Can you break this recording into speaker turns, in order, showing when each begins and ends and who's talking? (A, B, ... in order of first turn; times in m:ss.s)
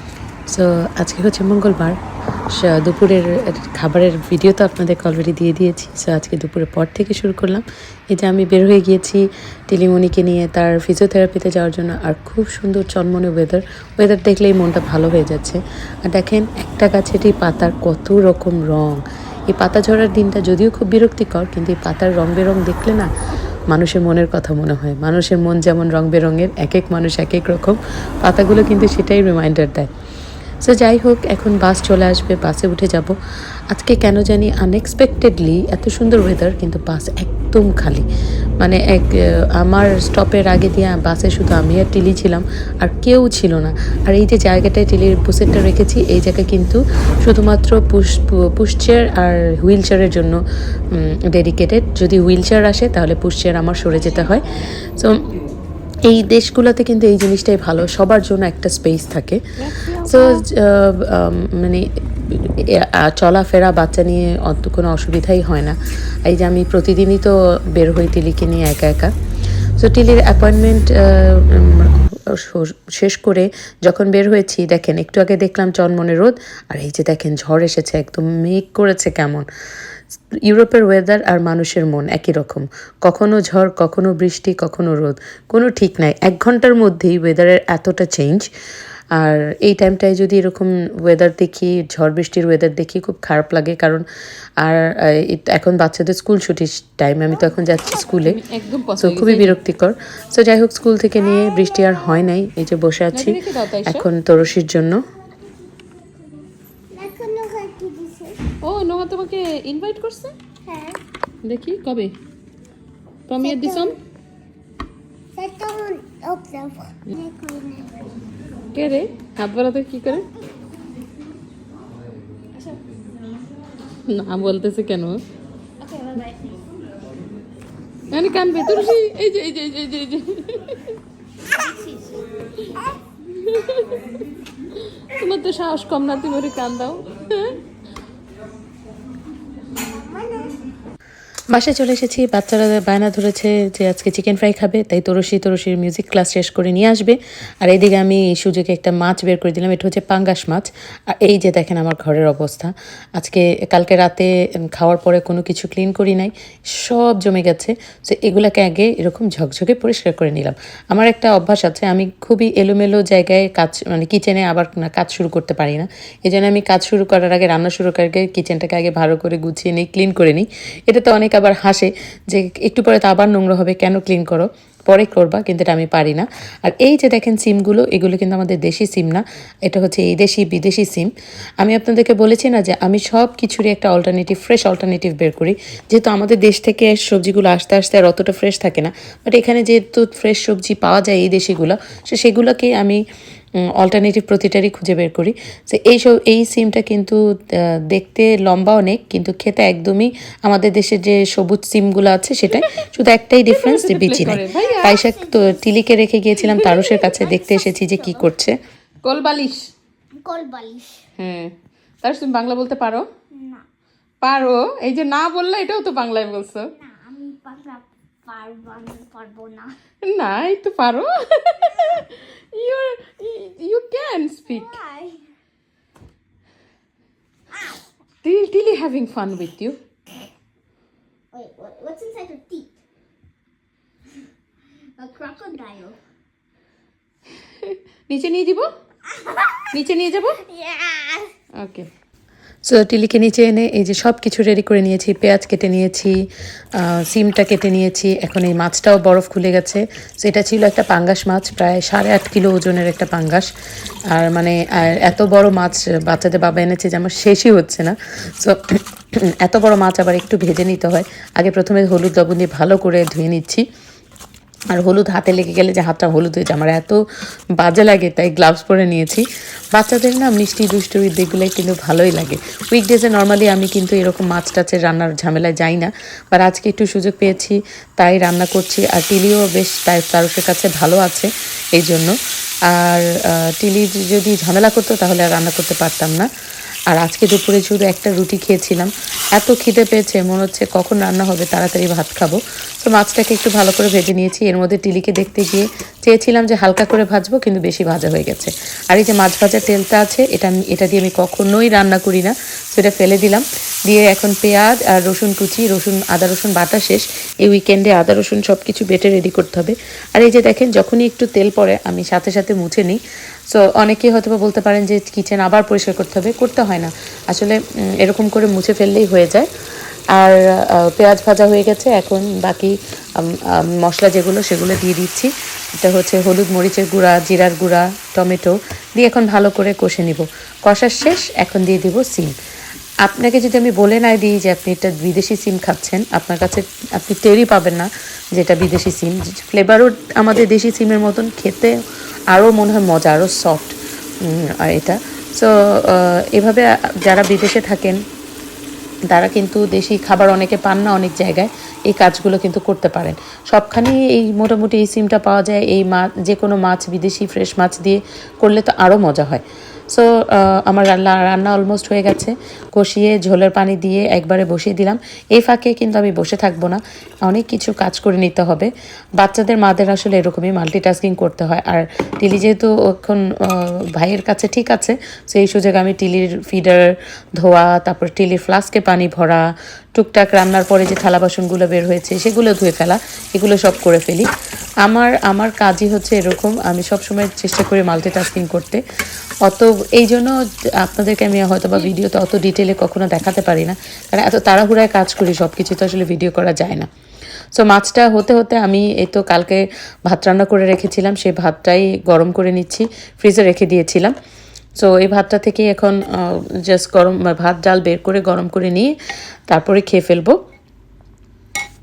0:00.5-0:02.0 A
0:02.5-0:19.0 A
0:19.5-0:23.1 A
0:23.7-0:29.9 A
0:30.6-0:33.2 A
0:33.7-0:38.1 A
0:38.6-0:50.4 A
0:50.9-0:54.4 A
0:55.0-0:55.2 A
0:56.0-0:59.4 A
0:59.6-1:00.4 B
1:00.0-1:09.1 A
1:09.8-1:19.5 A
1:20.5-1:28.5 A
1:29.2-1:34.0 A
1:34.6-1:38.4 A
1:38.2-1:39.6 B
1:39.0-1:45.0 A
1:41.4-1:42.0 C
1:43.1-1:44.1 B
1:45.3-1:48.4 C
1:48.6-1:50.4 B
1:50.6-1:51.0 C
1:51.4-1:52.1 B
1:53.3-1:54.0 B
1:53.4-1:54.0 C
1:55.4-1:58.1 C
1:58.7-2:00.3 B
2:04.1-2:05.2 B
2:05.9-2:06.2 C
2:08.1-2:10.9 B
2:11.6-2:12.2 C
2:13.4-2:14.0 B
2:15.2-2:17.6 B
2:19.8-2:20.6 C
2:21.5-3:01.1 A
3:01.6-3:13.0 A
3:13.8-3:28.6 A
3:23.5-3:25.0 B
3:24.5-3:25.6 C
3:26.4-3:27.0 B
3:27.0-3:28.3 C
3:29.0-3:29.7 B
3:30.2-3:31.0 C
3:31.2-3:33.1 B
3:33.3-3:33.6 C
3:34.2-3:36.7 B
3:36.7-3:39.8 C
3:40.0-3:44.8 B
3:44.5-3:45.2 C
3:48.2-3:49.8 B
3:51.3-3:52.8 C
3:55.0-3:56.0 C
3:57.6-3:58.7 B
3:59.7-4:00.4 B
4:00.5-4:01.3 C
4:01.6-4:01.9 B
4:02.6-4:06.2 A
4:06.8-4:13.5 A
4:14.1-4:18.6 A
4:19.3-4:23.6 A
4:24.8-4:27.0 A
4:27.6-4:42.1 A
4:42.7-4:46.3 A
4:46.9-5:19.5 A
5:20.2-5:32.3 A
5:33.1-5:41.7 A
5:42.3-5:48.0 A
5:49.1-6:19.4 A
6:20.0-6:24.3 A
6:24.8-6:28.8 A
6:29.5-6:36.9 A
6:37.6-6:44.1 A
6:44.8-6:48.9 A
6:49.5-6:50.4 A